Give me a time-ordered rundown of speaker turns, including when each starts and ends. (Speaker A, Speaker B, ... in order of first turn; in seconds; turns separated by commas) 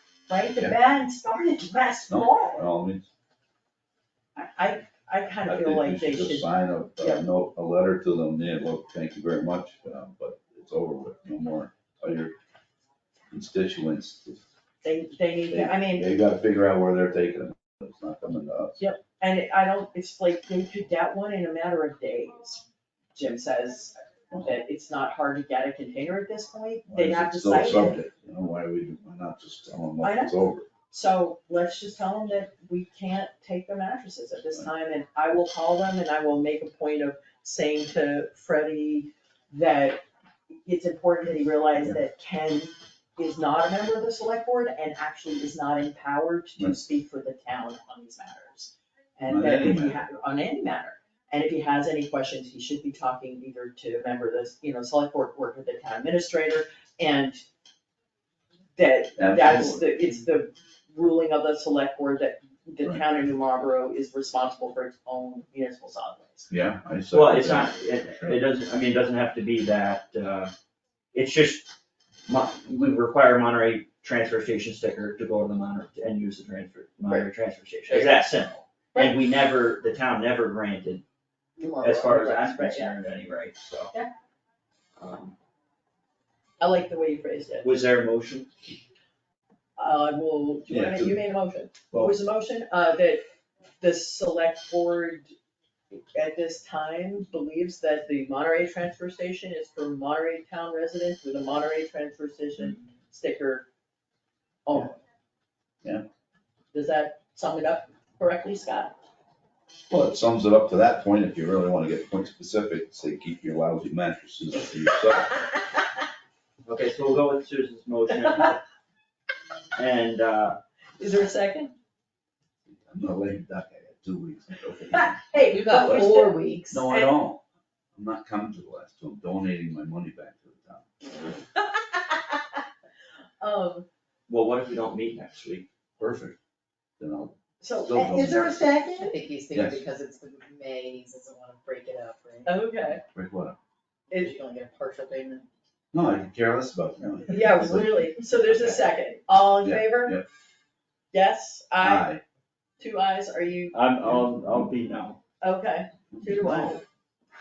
Speaker A: 0.3-2.7, Speaker B: 2.1-3.1, Speaker A: 4.3-7.2, Speaker B: 5.4-12.4, Speaker B: 13.3-14.4, Speaker A: 14.8-16.1, Speaker B: 15.5-18.8, Speaker A: 18.8-22.6, Speaker A: 23.1-28.0, Speaker B: 26.9-30.7, Speaker A: 30.0-40.0, Speaker A: 40.6-57.4, Speaker B: 49.2-50.0, Speaker A: 58.8-66.5, Speaker B: 59.1-59.9, Speaker B: 66.5-68.4, Speaker C: 67.1-70.5, Speaker C: 71.1-71.7, Speaker C: 72.3-81.0, Speaker A: 77.9-78.2, Speaker D: 81.6-82.3, Speaker C: 81.8-83.9, Speaker A: 82.1-82.9, Speaker C: 85.0-85.3, Speaker A: 86.6-87.8, Speaker C: 87.6-88.7, Speaker A: 89.8-93.2, Speaker B: 90.7-91.3, Speaker B: 91.9-92.2, Speaker A: 93.8-95.3, Speaker A: 95.9-103.7, Speaker A: 104.7-105.0, Speaker A: 106.7-108.9, Speaker B: 109.9-115.4, Speaker C: 116.6-118.6, Speaker C: 119.8-120.6, Speaker A: 121.0-121.7, Speaker B: 122.7-127.4, Speaker A: 124.9-127.1, Speaker D: 125.4-126.8, Speaker B: 127.9-130.9, Speaker A: 131.6-132.4, Speaker A: 133.4-133.9, Speaker C: 134.3-135.7, Speaker B: 136.0-136.4, Speaker B: 137.0-138.8, Speaker A: 137.6-139.1, Speaker D: 138.9-142.6, Speaker B: 139.5-139.8, Speaker A: 142.4-143.0, Speaker B: 143.0-143.6, Speaker D: 144.1-145.5, Speaker B: 145.9-148.8, Speaker A: 147.3-150.2, Speaker B: 149.6-150.2, Speaker A: 151.1-152.1, Speaker B: 151.8-152.2, Speaker A: 152.8-153.8, Speaker C: 153.7-155.2, Speaker B: 154.0-154.7, Speaker A: 155.4-156.8, Speaker B: 156.1-156.8